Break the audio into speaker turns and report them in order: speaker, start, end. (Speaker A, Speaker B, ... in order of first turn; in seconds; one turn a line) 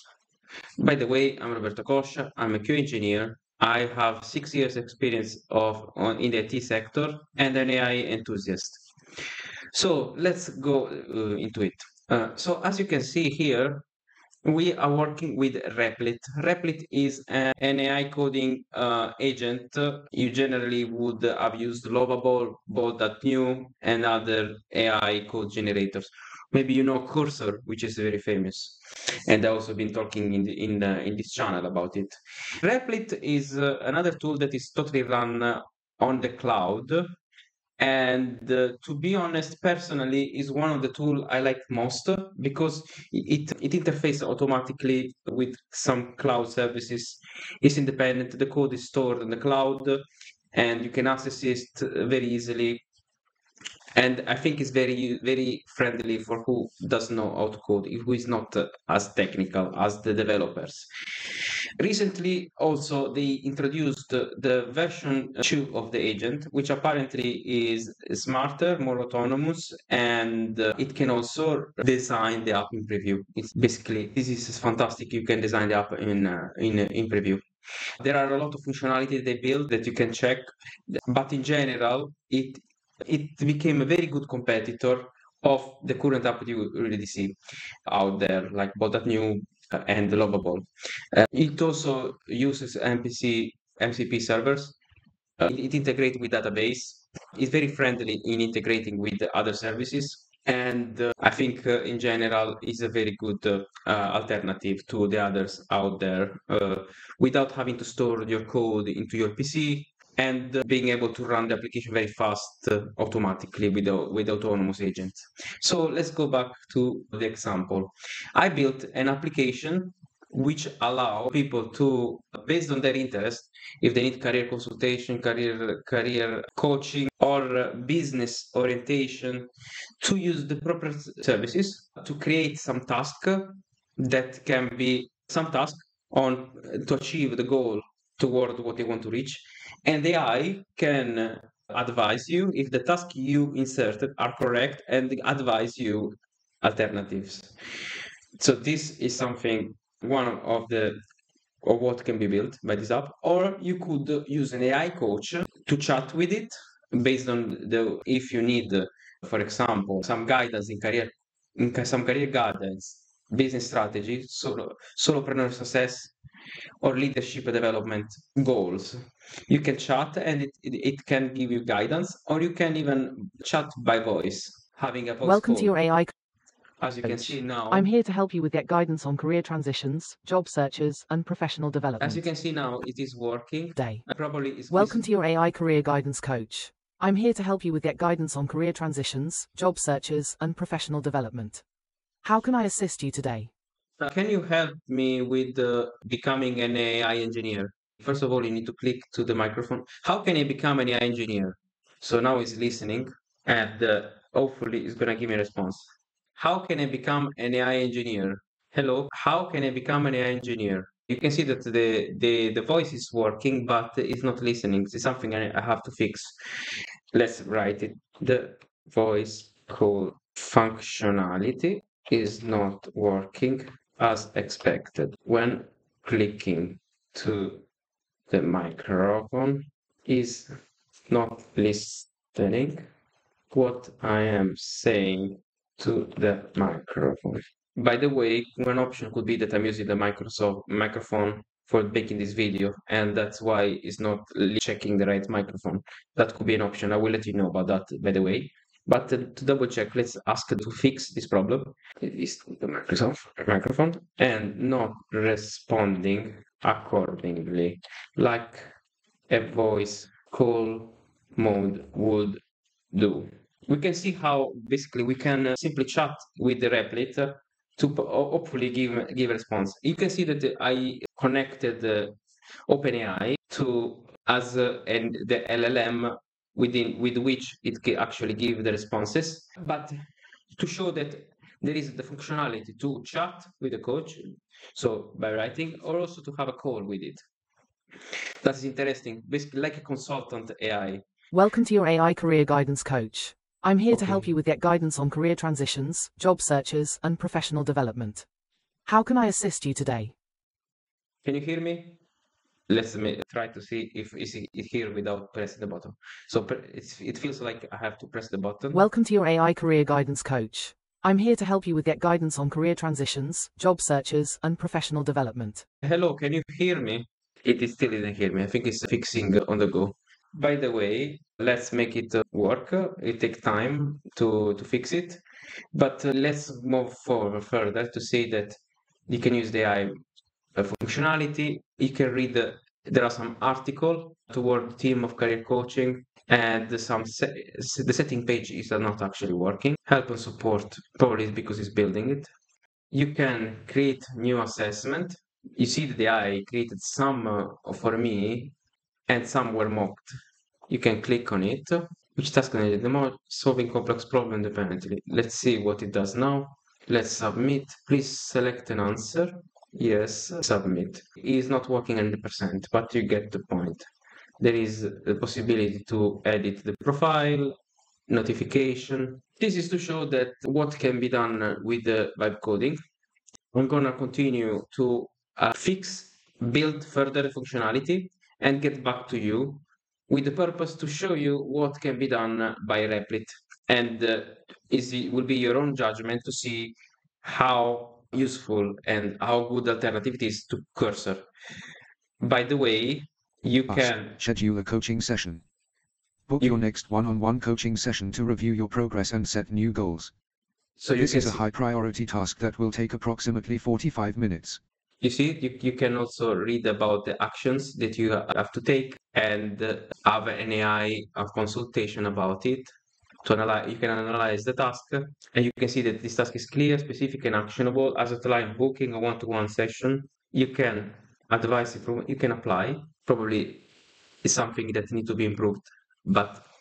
Speaker A: 0.8-8.9
Speaker A: 9.7-13.9
Speaker A: 14.4-37.1
Speaker A: 37.8-50.0
Speaker A: 50.5-52.8
Speaker A: 54.0-60.9
Speaker A: 61.8-77.5
Speaker A: 78.0-94.8
Speaker A: 95.4-129.5
Speaker A: 130.0-147.5
Speaker A: 148.4-151.0
Speaker A: 151.6-166.1
Speaker A: 166.8-175.8
Speaker B: 175.2-176.1
Speaker A: 176.8-177.9
Speaker B: 177.0-182.2
Speaker A: 182.0-185.1
Speaker B: 183.8-184.1
Speaker B: 184.7-191.6
Speaker B: 192.2-193.5
Speaker A: 194.0-216.4
Speaker A: 217.1-227.6
Speaker A: 228.3-230.5
Speaker A: 231.1-232.8
Speaker A: 233.5-258.7
Speaker A: 259.3-262.4
Speaker A: 262.9-272.2
Speaker A: 272.7-279.9
Speaker A: 280.6-287.2
Speaker A: 288.4-291.0
Speaker B: 291.3-298.3
Speaker A: 293.9-294.3
Speaker B: 298.9-300.1
Speaker A: 301.2-302.0
Speaker A: 302.7-308.9
Speaker B: 308.7-315.7
Speaker A: 315.8-325.2
Speaker A: 325.7-329.9
Speaker A: 330.6-342.3
Speaker A: 342.9-348.5
Speaker A: 349.1-350.1
Speaker A: 350.7-363.9
Speaker A: 364.4-367.6
Speaker A: 368.1-372.8
Speaker A: 373.5-391.2
Speaker A: 392.2-394.2
Speaker C: 393.7-395.4
Speaker C: 396.3-400.1
Speaker A: 396.4-396.6
Speaker A: 400.8-401.4
Speaker C: 401.0-404.6
Speaker A: 405.0-412.7
Speaker A: 413.2-423.6
Speaker A: 424.2-426.4